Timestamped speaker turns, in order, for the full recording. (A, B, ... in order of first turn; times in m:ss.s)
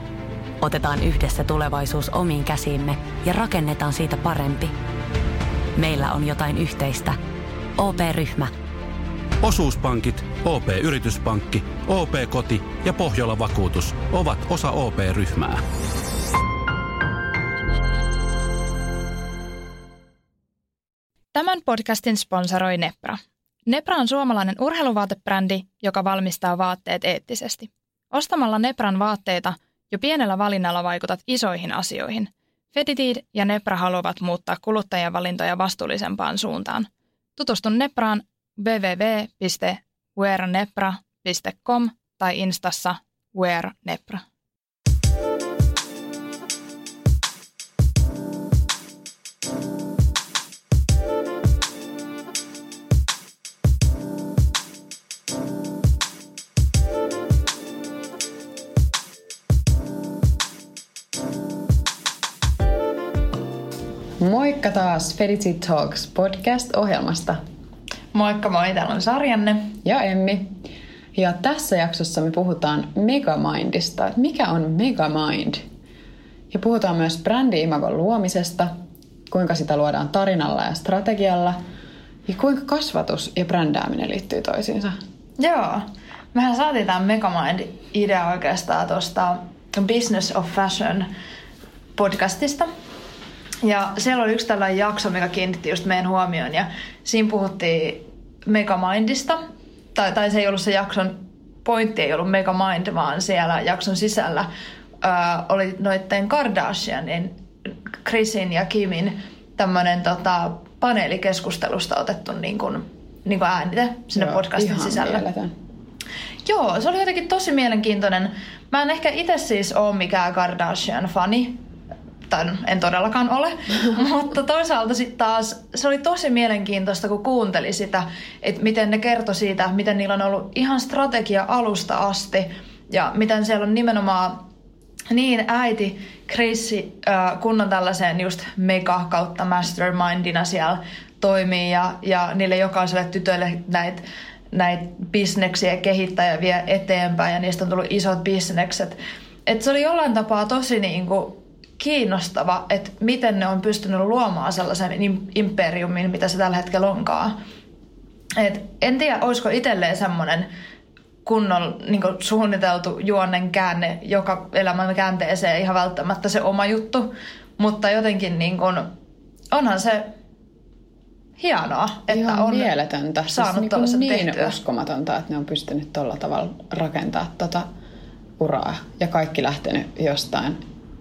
0:00.6-0:04.7 A
0:05.8-0:07.2 A
0:07.8-0:08.5 A
0:09.4-0:15.6 B
0:21.3-0:44.2 C
1:04.2-1:07.4 D
1:08.1-1:09.8 C
1:09.8-1:10.6 D
1:11.1-1:15.6 D
1:16.5-1:18.7 D
1:19.3-1:21.6 D
1:22.3-1:25.0 D
1:25.4-1:31.1 C
1:32.0-1:32.7 C
1:33.6-1:39.4 C
1:39.9-1:44.5 C
1:45.0-1:47.3 C
1:48.0-1:55.2 C
1:54.1-1:55.5 D
1:56.4-2:01.6 C
2:02.3-2:14.4 C
2:15.1-2:37.3 C
2:38.4-2:40.5 C
2:41.2-2:48.9 C
2:49.5-2:50.1 C
2:51.4-2:52.7 C
2:52.1-2:57.7 D
2:53.3-2:54.5 C
2:58.4-3:00.6 D